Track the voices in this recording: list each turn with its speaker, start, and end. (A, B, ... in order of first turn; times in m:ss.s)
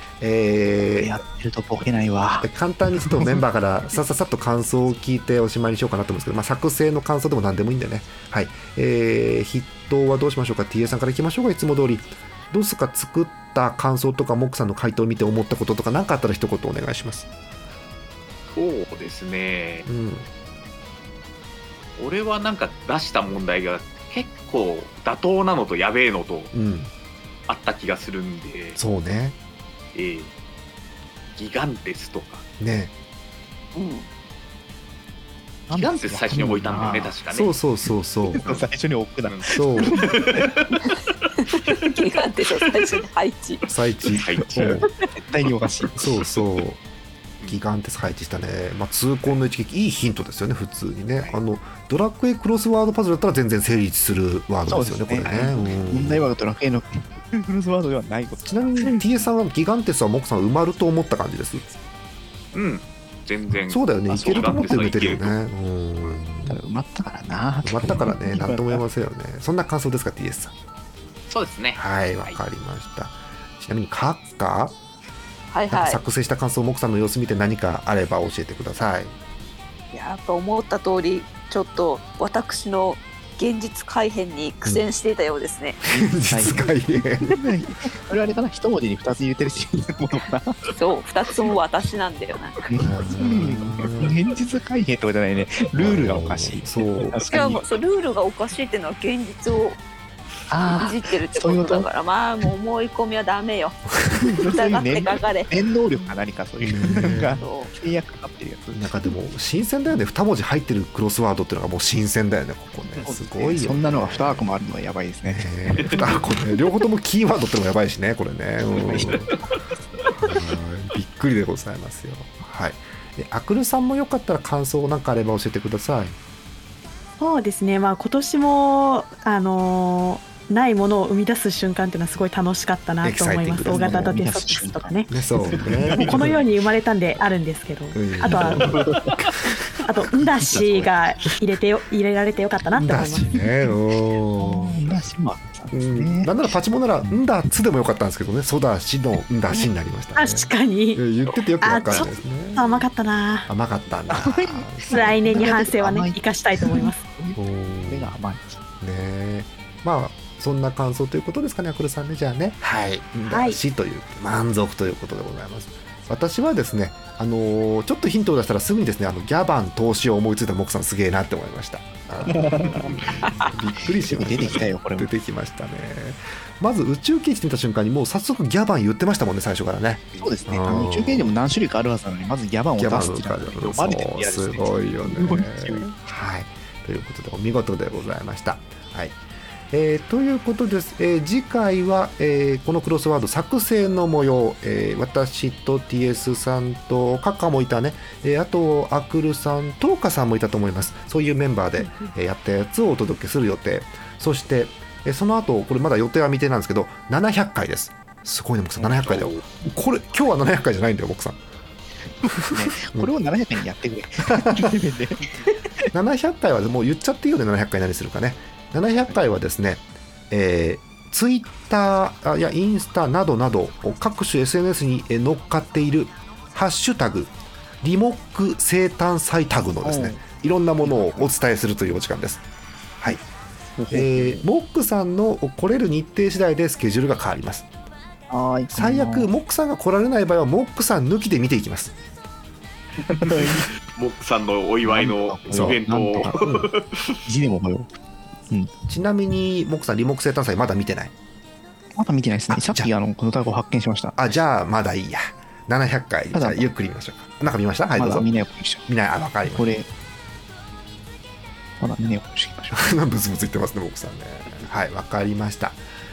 0:00.2-0:01.2 A
0:01.0-0:03.4 B
0:02.4-0:17.3 A
0:18.5-0:19.9 C
0:19.8-0:20.3 A
0:22.0-0:26.5 C
0:26.5-0:26.9 A
0:27.5-0:28.8 C
0:28.8-0:29.4 A
0:29.9-0:30.3 C
0:31.4-0:32.4 C
0:32.6-0:32.9 A
0:33.7-0:34.1 D
0:35.7-0:37.2 B
0:35.7-0:37.6 C
0:37.3-0:38.6 A
0:38.3-0:40.6 B
0:39.2-0:40.8 C
0:39.5-0:40.0 A
0:41.5-0:43.6 D
0:43.7-0:44.9 A
0:44.1-0:44.8 C
0:44.5-0:46.0 B
0:46.0-0:46.8 A
0:47.4-0:56.3 A
0:54.7-0:59.0 B
0:58.4-1:01.6 A
1:02.5-1:05.3 C
1:03.7-1:06.6 A
1:06.4-1:08.8 B
1:07.6-1:10.5 A
1:11.3-1:12.4 C
1:11.7-1:14.8 A
1:15.5-1:16.0 D
1:15.7-1:19.1 A
1:19.9-1:25.8 D
1:25.9-1:26.7 B
1:25.9-1:27.4 A
1:27.2-1:30.6 B
1:30.8-1:32.6 D
1:32.7-1:37.6 B
1:32.8-1:34.2 A
1:35.8-1:37.2 A
1:37.3-1:39.8 D
1:40.5-1:41.9 B
1:40.8-1:45.5 D
1:44.2-1:48.8 B
1:46.6-1:47.4 A
1:47.4-1:47.7 D
1:48.7-1:54.4 A
1:53.0-1:56.1 B
1:55.3-1:59.3 A
1:55.7-1:56.2 C
1:58.8-1:59.3 B
1:59.0-1:59.4 C
2:00.0-2:00.4 C
2:00.2-2:06.2 A
2:07.2-2:15.3 E
2:13.0-2:14.2 A
2:13.7-2:16.2 B
2:15.1-2:16.4 A
2:15.9-2:18.8 E
2:17.9-2:18.8 A
2:18.2-2:19.2 B
2:19.8-2:23.4 E
2:20.4-2:20.9 B
2:22.7-2:25.0 A
2:24.4-2:26.3 B
2:25.7-2:32.8 A
2:30.2-2:31.1 E
2:31.6-2:33.5 E
2:31.7-2:32.1 C
2:33.5-2:35.4 A
2:34.1-2:38.6 B
2:34.9-2:37.0 E
2:37.4-2:38.2 A
2:38.8-3:01.3 A
2:43.2-2:43.6 E
2:52.2-2:53.0 B
2:54.0-2:55.1 B
3:00.1-3:05.9 B
3:02.8-3:09.2 A
3:09.7-3:31.4 A
3:28.8-3:29.4 C
3:32.2-3:35.6 B
3:32.3-3:33.1 A
3:34.2-3:34.7 A
3:35.9-3:52.4 A
3:49.8-3:50.2 B
3:50.8-3:51.2 B
3:53.8-3:54.4 B
3:53.9-3:57.6 A
3:58.3-3:59.3 B
3:58.7-4:01.9 A
4:03.0-4:03.7 B
4:03.1-4:07.2 C
4:04.8-4:06.5 B
4:05.5-4:05.8 A
4:06.3-4:06.7 A
4:07.2-4:07.9 B
4:08.9-4:11.1 A
4:12.0-4:14.2 B
4:12.5-4:12.9 A
4:14.2-4:18.3 A
4:16.3-4:16.7 B
4:18.0-4:18.8 B
4:18.8-4:19.7 A
4:19.4-4:19.9 B
4:21.8-4:22.9 B
4:22.7-4:25.8 A